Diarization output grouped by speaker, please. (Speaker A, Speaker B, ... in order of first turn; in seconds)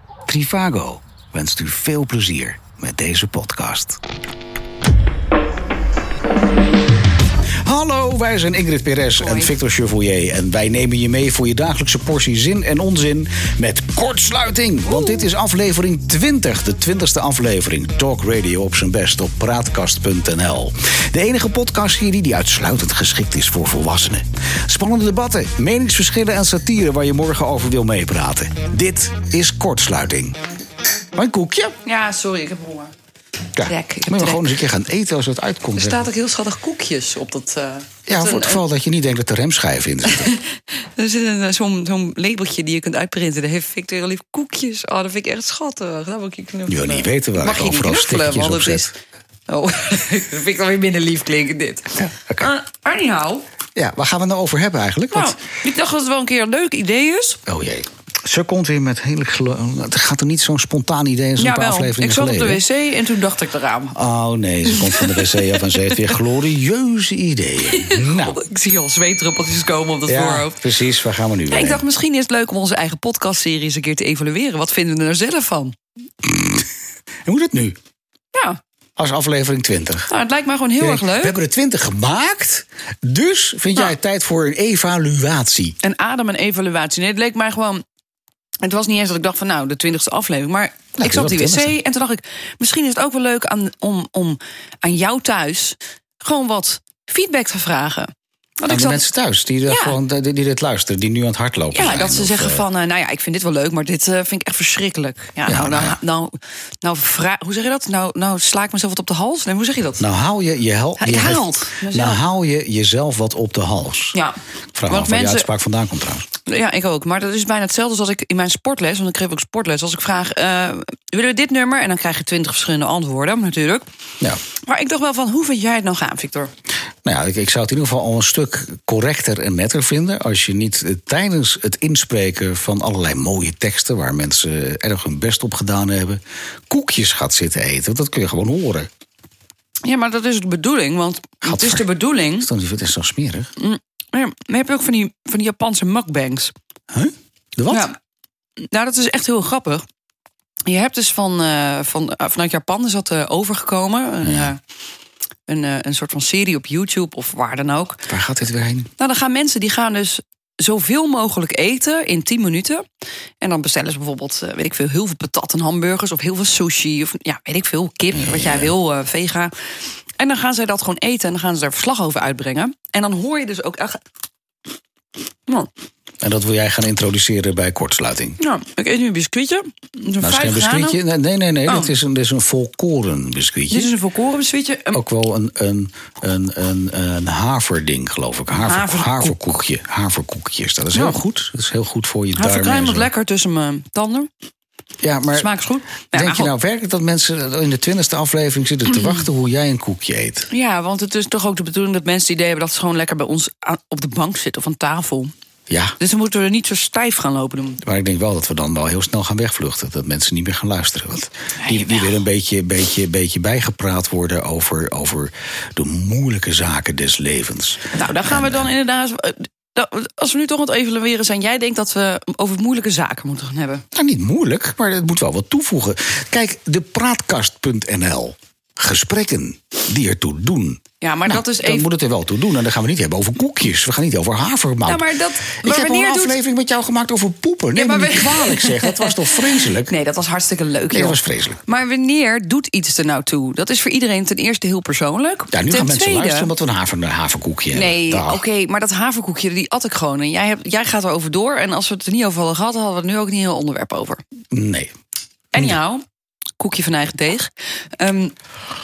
Speaker A: 0.3-4.0, 7.7-30.4, 31.1-31.8, 33.5-36.1, 38.1-40.4, 46.7-48.9, 52.0-52.5, 53.8-55.4, 57.5-62.6, 63.9-68.4, 70.1-71.8, 76.2-76.7, 77.2-77.8, 79.0-80.1, 80.8-85.8, 91.0-91.8, 98.7-102.6, 105.5-106.0, 110.0-114.2, 114.8-116.3, 127.0-138.9, 141.4-141.9, 142.4-143.5, 146.9-147.9, 154.2-154.5, 158.1-158.9, 168.2-168.7, 176.2-178.4, 180.2-183.9, 184.9-193.1, 195.0-195.5, 196.1-200.5, 205.7-206.0, 207.8-218.7, 223.9-235.1, 235.6-239.9, 240.9-241.6, 245.5-248.4, 254.5-254.9
Speaker B: 9.2-9.6, 14.9-15.3, 31.8-32.9, 33.6-34.7, 35.8-38.6, 40.0-48.9, 49.5-53.5, 55.1-57.4, 61.4-64.0, 64.7-66.1, 67.7-70.7, 71.5-75.8, 78.3-78.6, 80.1-81.4, 85.8-87.8, 88.6-99.0, 99.7-100.0, 101.7-110.0, 111.0-112.2, 114.1-115.5, 116.5-123.9, 124.6-126.5, 139.8-142.5, 143.6-146.5, 147.7-147.9, 148.7-149.8, 150.7-154.6, 155.5-158.1, 159.0-162.8, 163.4-174.0, 178.4-181.0, 181.7-181.9, 183.7-185.0, 188.6-189.5, 190.9-191.2, 192.3-194.3, 195.3-196.5, 200.5-205.3, 206.0-207.8, 211.6-212.2, 217.9-223.8, 231.0-231.9, 234.9-236.4, 237.7-246.5, 247.7-254.2, 255.5-256.0, 256.6-258.4